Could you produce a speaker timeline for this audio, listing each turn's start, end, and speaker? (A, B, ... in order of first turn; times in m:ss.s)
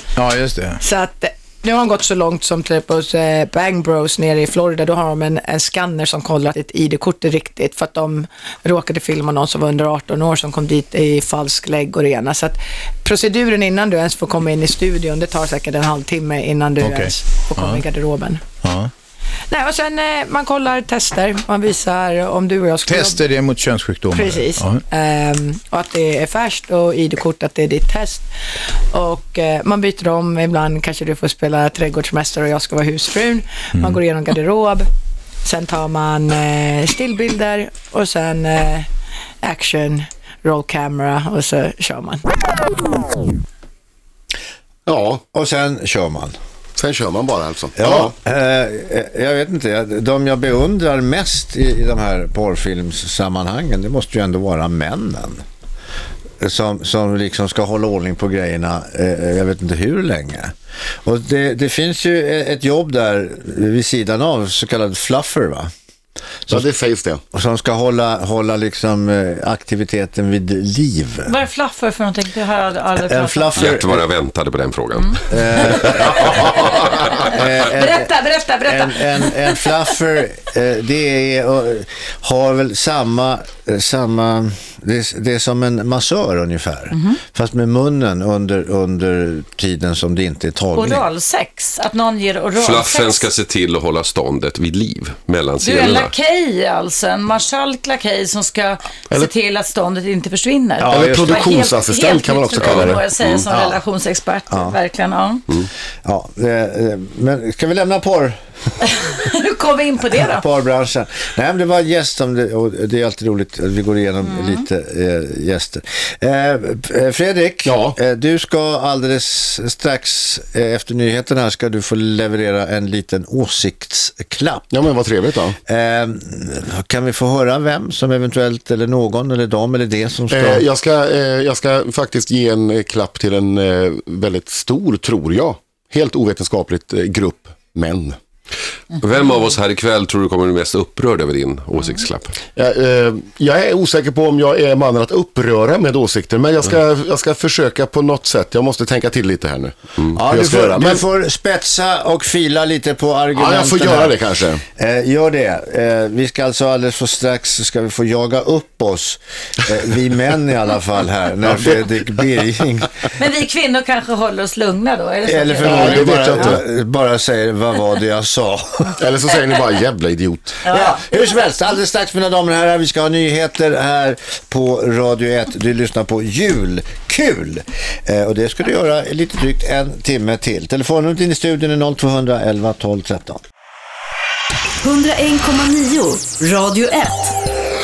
0:00.2-0:00.8 A
0:00.8-0:18.4 B
0:16.8-0:17.8 A
0:18.6-0:18.9 A
0:19.5-0:23.3 B
0:22.9-0:24.8 A
0:24.1-0:28.3 B
0:28.9-0:34.9 B
0:35.4-0:38.9 B
0:39.4-0:42.3 B
0:44.9-0:45.2 C
0:45.3-0:46.4 D
0:46.8-0:48.1 C
0:47.8-0:55.4 D
0:56.4-1:00.5 D
1:01.0-1:05.7 D
1:06.5-1:07.2 C
1:07.3-1:11.4 D
1:11.3-1:13.6 E
1:13.0-1:14.1 D
1:13.6-1:15.2 F
1:15.3-1:31.1 D
1:17.3-1:19.8 E
1:30.8-1:33.3 E
1:32.6-1:36.1 F
1:35.6-1:45.5 E
1:40.8-1:41.4 D
1:40.9-1:43.1 C
1:42.6-1:43.4 F
1:43.5-1:43.8 D
1:44.5-1:44.8 D
1:46.0-1:48.4 D
1:48.8-1:50.5 E
1:50.1-2:04.7 D
1:57.7-1:58.0 C
2:04.7-2:05.6 C
2:05.7-2:10.7 D
2:10.3-2:18.2 C
2:19.0-2:22.4 F
2:22.6-2:31.0 C
2:30.1-2:34.2 D
2:33.3-2:34.6 C
2:34.8-2:43.0 D
2:43.2-2:46.6 E
2:45.2-2:49.0 D
2:45.6-2:46.6 C
2:49.0-2:50.6 C
2:50.7-2:51.0 E
2:50.7-3:03.4 D
3:04.8-3:07.4 G